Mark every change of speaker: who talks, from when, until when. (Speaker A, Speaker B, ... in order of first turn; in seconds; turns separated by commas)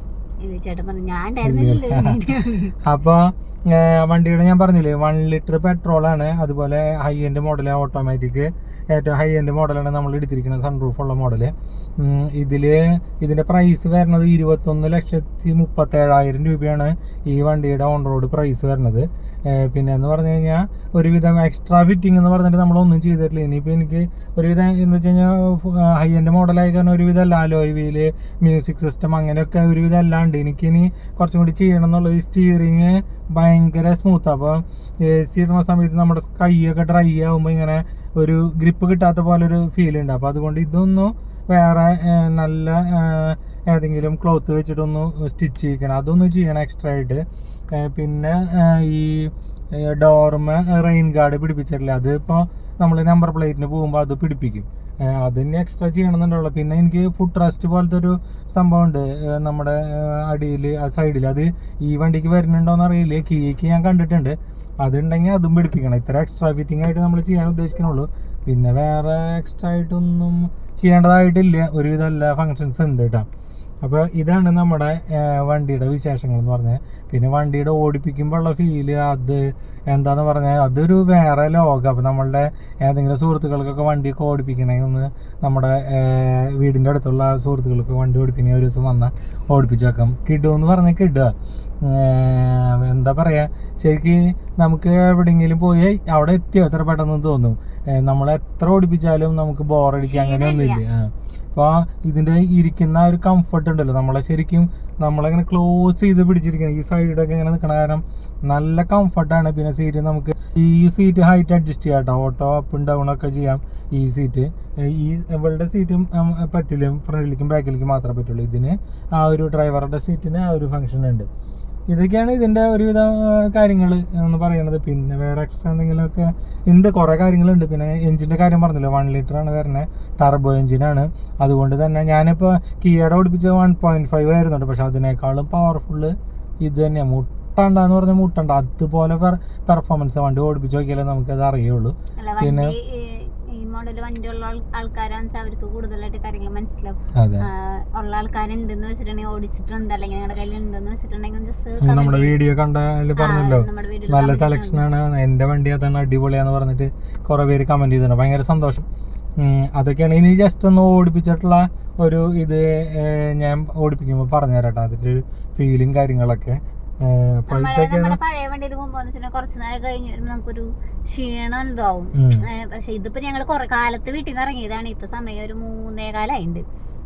Speaker A: 0.4-2.7, Speaker B: 1.4-73.3, Speaker B: 73.8-121.3, Speaker A: 100.0-100.8, Speaker B: 121.9-142.7, Speaker A: 142.2-152.4, Speaker B: 147.1-147.5, Speaker B: 151.8-158.8, Speaker A: 153.2-154.8, Speaker B: 159.4-168.2, Speaker A: 167.5-176.6, Speaker B: 172.1-172.4